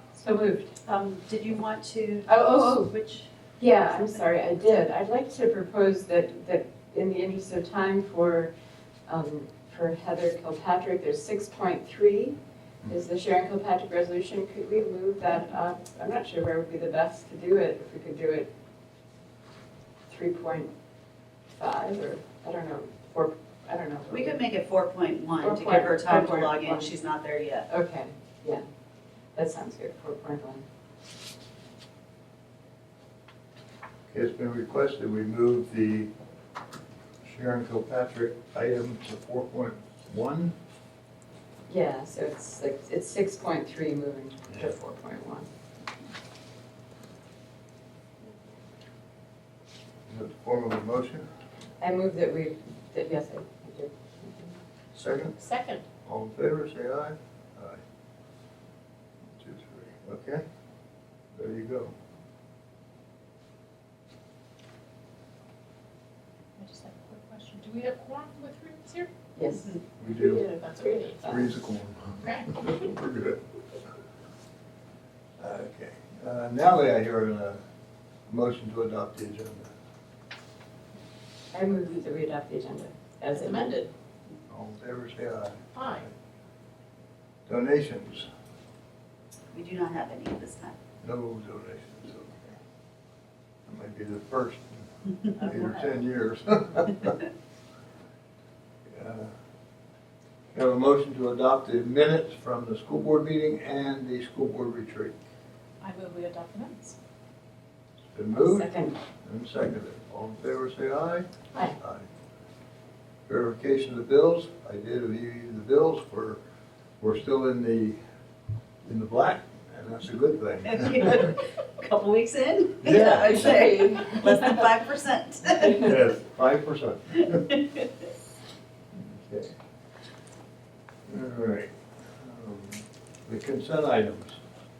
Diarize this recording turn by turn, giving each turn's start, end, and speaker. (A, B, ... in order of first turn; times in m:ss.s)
0:00.1-0:00.7 A
0:00.8-0:03.3 B
0:02.3-0:02.9 A
0:03.6-0:08.5 A
0:09.1-0:18.5 A
0:20.1-0:20.7 A
0:21.6-0:24.4 A
0:24.1-0:27.7 B
0:25.4-0:26.9 A
0:27.7-0:28.6 A
0:29.4-0:30.6 A
0:34.1-0:36.1 C
0:37.2-0:40.6 C
0:41.7-0:45.5 A
0:50.1-0:51.3 C
0:51.8-0:54.6 A
0:54.9-0:55.4 C
0:55.4-0:55.8 D
0:56.0-0:57.8 C
0:59.4-1:00.4 C
1:01.4-1:01.9 C
1:06.6-1:09.1 D
1:09.4-1:11.5 A
1:10.0-1:10.4 C
1:10.2-1:11.2 D
1:11.2-1:13.4 C
1:15.4-1:17.6 C
1:18.3-1:19.7 C
1:21.5-1:23.8 A
1:23.3-1:23.9 D
1:24.5-1:26.1 C
1:25.8-1:26.0 D
1:27.5-1:28.3 C
1:29.5-1:30.8 B
1:31.0-1:32.6 C
1:33.7-1:37.1 C
1:35.4-1:36.0 B
1:38.9-1:39.3 C
1:40.5-1:45.2 C
1:45.8-1:47.0 D
1:48.1-1:48.7 C
1:48.3-1:49.0 A
1:49.2-1:52.0 C
1:53.3-1:56.4 C
1:57.0-1:58.0 C
1:58.8-2:01.3 C
2:00.7-2:06.0 B
2:02.8-2:03.7 C
2:03.3-2:04.4 A
2:05.7-2:07.5 C
2:08.9-2:09.5 C
2:11.1-2:14.4 C